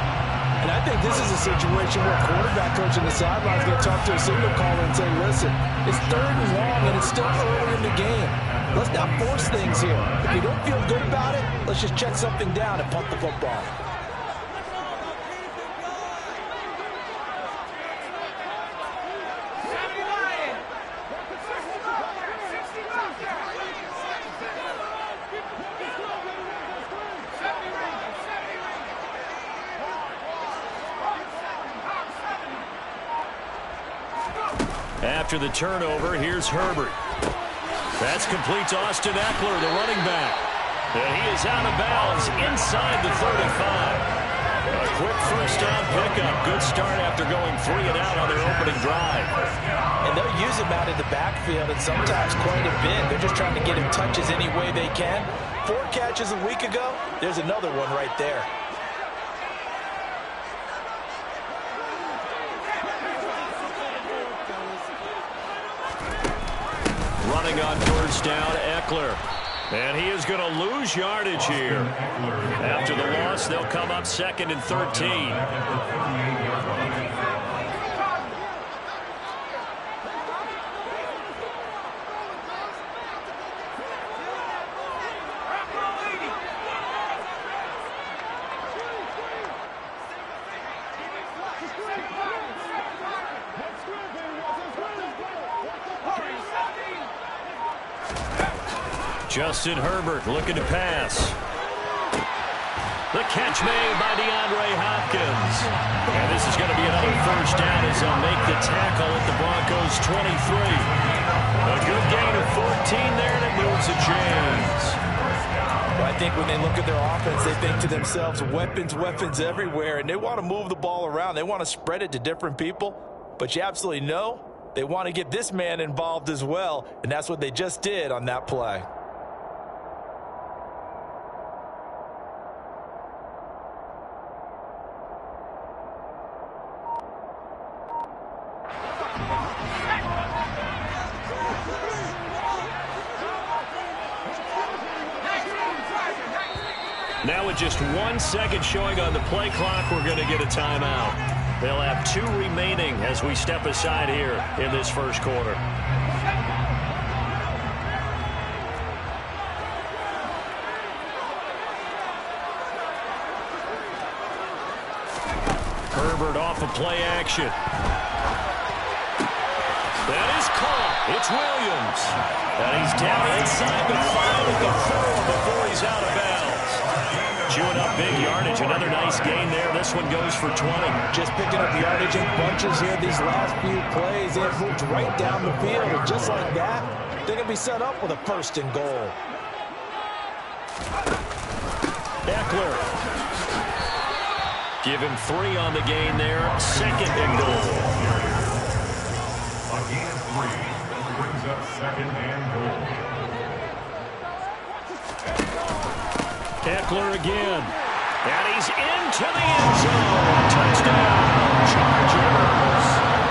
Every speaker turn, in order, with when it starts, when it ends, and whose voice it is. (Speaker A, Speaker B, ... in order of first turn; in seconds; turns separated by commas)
Speaker A: 0.6-13.7, Speaker B: 8.5-10.3, Speaker C: 35.0-37.0, Speaker C: 38.0-44.1, Speaker C: 44.7-49.4, Speaker A: 50.0-58.5, Speaker C: 67.2-71.9, Speaker B: 71.3-73.5, Speaker C: 72.6-75.4, Speaker B: 74.7-77.7, Speaker C: 99.3-101.4, Speaker C: 103.1-110.9, Speaker B: 111.5-112.4, Speaker C: 111.6-115.0, Speaker A: 116.0-128.9, Speaker B: 117.7-119.7, Speaker C: 147.2-155.6, Speaker C: 165.9-167.6, Speaker C: 170.1-176.8, Speaker C: 177.5-181.0, Speaker A: 181.1-189.2, Speaker C: 192.2-192.9, Speaker C: 194.8-197.9, Speaker B: 196.9-198.5, Speaker B: 199.7-203.0, Speaker C: 206.6-213.0